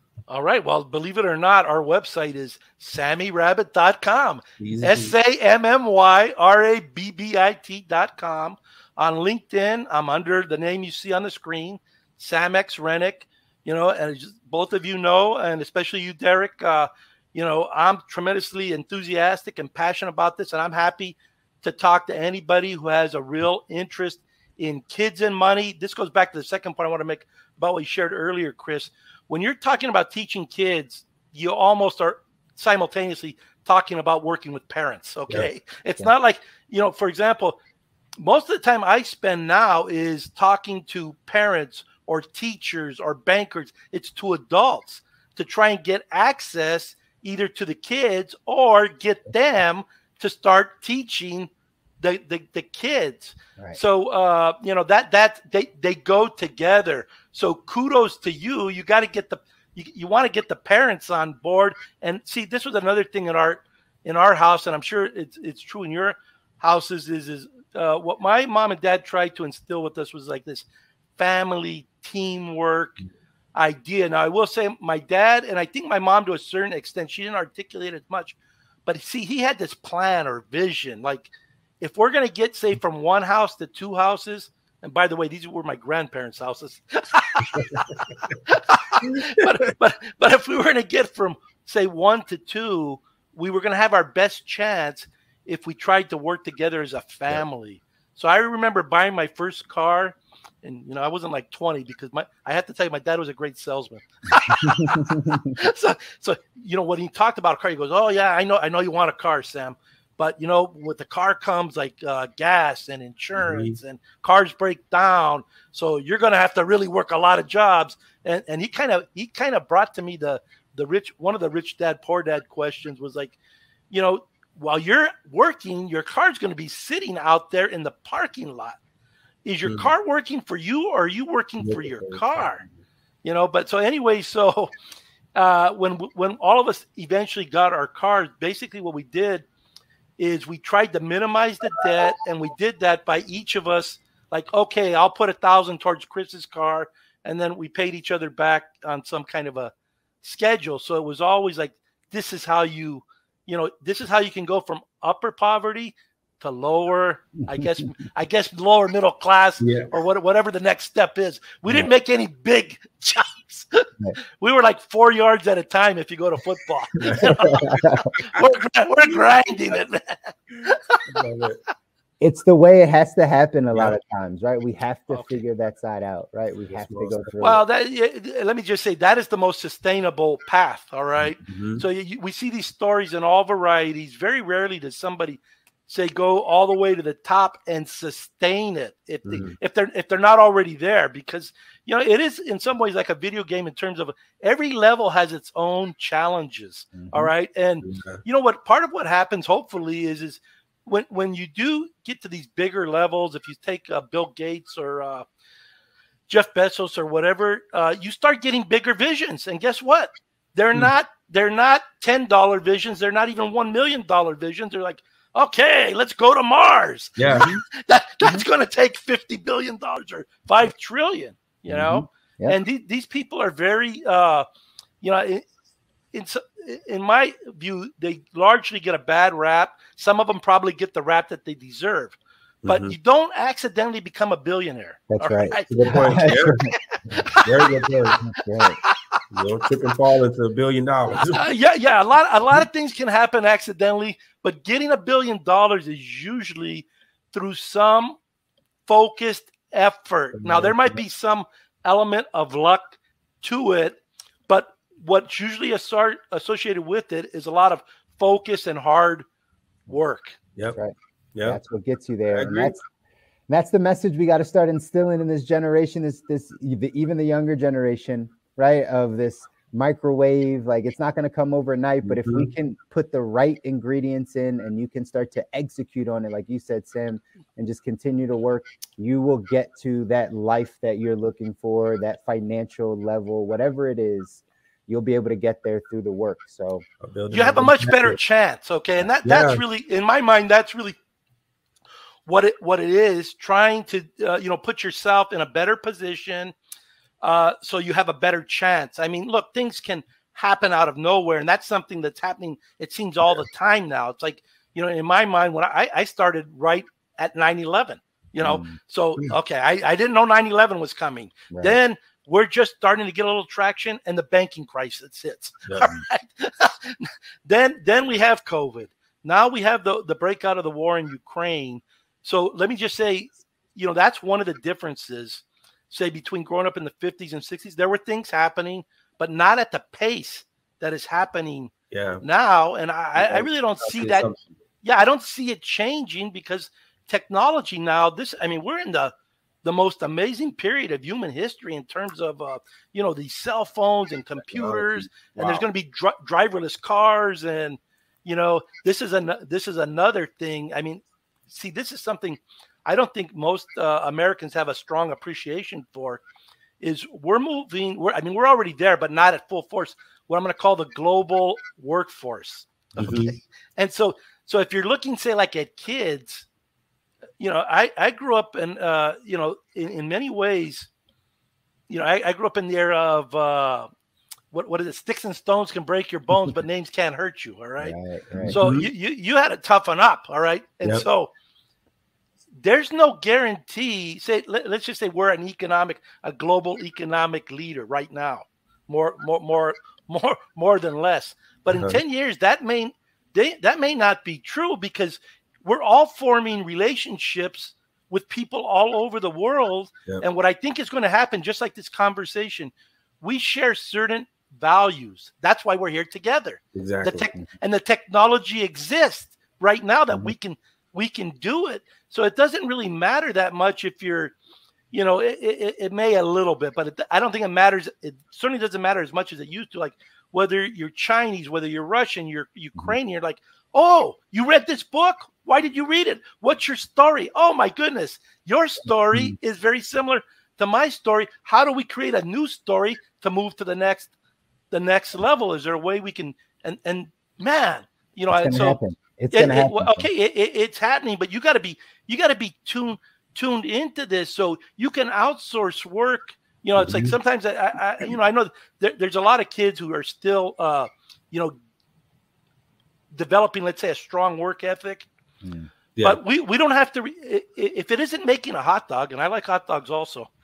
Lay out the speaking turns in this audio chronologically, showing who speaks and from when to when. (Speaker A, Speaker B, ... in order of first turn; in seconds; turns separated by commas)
Speaker A: 0.3-37.6, Speaker B: 4.6-5.1, Speaker A: 38.2-70.7, Speaker A: 71.2-73.0, Speaker A: 73.5-87.8, Speaker B: 87.5-88.3, Speaker A: 88.5-123.4, Speaker B: 89.0-89.4, Speaker C: 104.6-105.5, Speaker B: 113.4-113.8, Speaker A: 123.9-128.8, Speaker A: 129.4-132.6, Speaker B: 129.7-129.9, Speaker B: 131.6-132.5, Speaker A: 133.2-134.7, Speaker A: 135.3-139.4, Speaker A: 140.2-171.0, Speaker C: 157.5-157.9, Speaker B: 159.6-159.9, Speaker C: 167.2-168.1, Speaker B: 171.1-171.6, Speaker C: 172.2-177.6, Speaker A: 175.1-175.3, Speaker B: 176.7-177.3, Speaker A: 177.4-205.2, Speaker B: 181.2-181.8, Speaker B: 189.3-189.6, Speaker C: 196.9-197.3, Speaker B: 197.8-198.2, Speaker A: 206.3-224.4, Speaker B: 217.2-217.5, Speaker C: 221.7-222.6, Speaker A: 225.0-225.4, Speaker A: 226.1-237.7, Speaker B: 232.6-232.9, Speaker C: 235.1-237.3, Speaker B: 235.7-236.7, Speaker B: 237.3-238.2, Speaker C: 238.2-238.8, Speaker A: 238.8-239.2, Speaker B: 239.3-241.4, Speaker A: 241.2-248.2, Speaker A: 248.9-259.2, Speaker B: 250.4-250.9, Speaker A: 259.9-260.4, Speaker C: 260.7-262.8, Speaker B: 262.3-262.7, Speaker C: 263.5-286.8, Speaker B: 272.0-272.5, Speaker B: 287.0-288.2, Speaker A: 287.3-291.0, Speaker B: 289.2-289.6, Speaker A: 292.3-296.5, Speaker A: 297.2-331.7, Speaker C: 308.4-308.8, Speaker C: 311.5-311.8, Speaker B: 315.7-315.9, Speaker B: 331.9-332.2, Speaker A: 332.2-334.3, Speaker B: 333.2-334.4, Speaker A: 334.8-339.1, Speaker A: 339.6-356.2, Speaker B: 344.5-345.6, Speaker A: 356.8-366.5, Speaker B: 363.0-363.3, Speaker A: 367.4-370.9, Speaker A: 371.9-373.9, Speaker A: 374.5-377.9, Speaker C: 377.8-378.6, Speaker B: 378.4-378.9, Speaker A: 378.5-381.3, Speaker A: 382.6-414.3, Speaker B: 391.7-392.0, Speaker B: 406.7-407.3, Speaker A: 414.9-434.1, Speaker A: 434.7-438.8, Speaker C: 438.3-440.1, Speaker A: 439.3-451.5, Speaker B: 446.8-447.1, Speaker A: 453.1-455.1, Speaker C: 455.4-455.7, Speaker A: 456.0-460.3